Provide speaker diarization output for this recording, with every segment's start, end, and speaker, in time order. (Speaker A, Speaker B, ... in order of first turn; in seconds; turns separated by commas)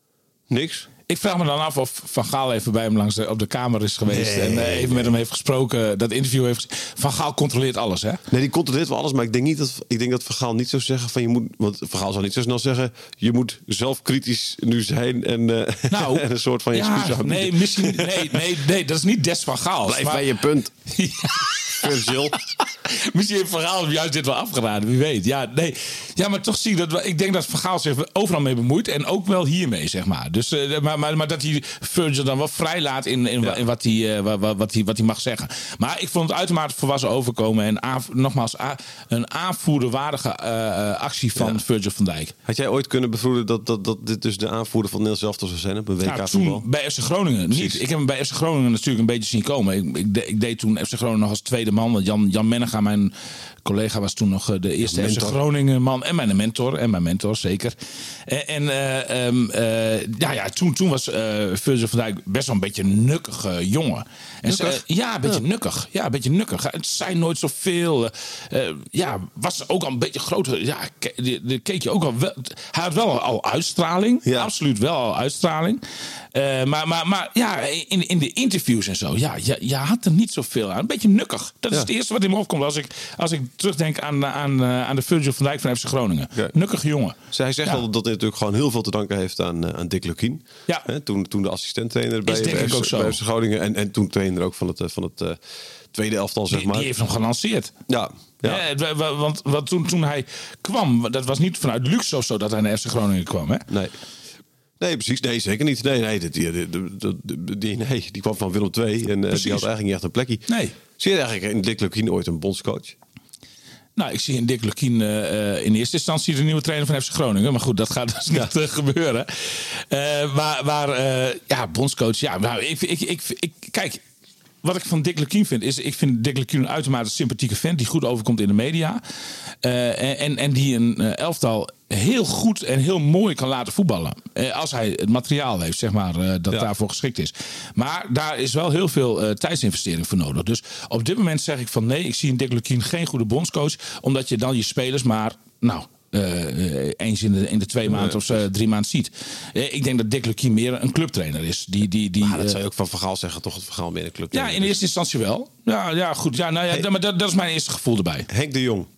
Speaker A: 0.5-0.9, Speaker B: 1.1-8.2, Speaker A: 4.1-5.1, Speaker A: 8.3-18.4, Speaker B: 15.9-20.3, Speaker A: 19.9-20.7, Speaker B: 20.9-42.3, Speaker A: 21.4-22.4, Speaker A: 41.4-41.6, Speaker A: 42.5-46.6, Speaker B: 46.0-53.1, Speaker A: 47.5-47.8, Speaker B: 53.6-87.8, Speaker A: 54.8-55.4, Speaker A: 64.5-65.4, Speaker A: 74.2-74.5, Speaker A: 87.3-95.4, Speaker B: 92.3-93.2, Speaker A: 95.9-96.9, Speaker B: 96.5-97.7, Speaker A: 97.9-98.6, Speaker B: 98.4-103.7, Speaker A: 104.8-113.0, Speaker B: 109.3-109.7, Speaker B: 110.5-110.8, Speaker B: 114.0-124.0, Speaker B: 124.6-129.0, Speaker B: 129.6-152.6, Speaker A: 147.9-148.4, Speaker A: 152.2-154.8, Speaker B: 154.3-158.3, Speaker A: 158.3-158.9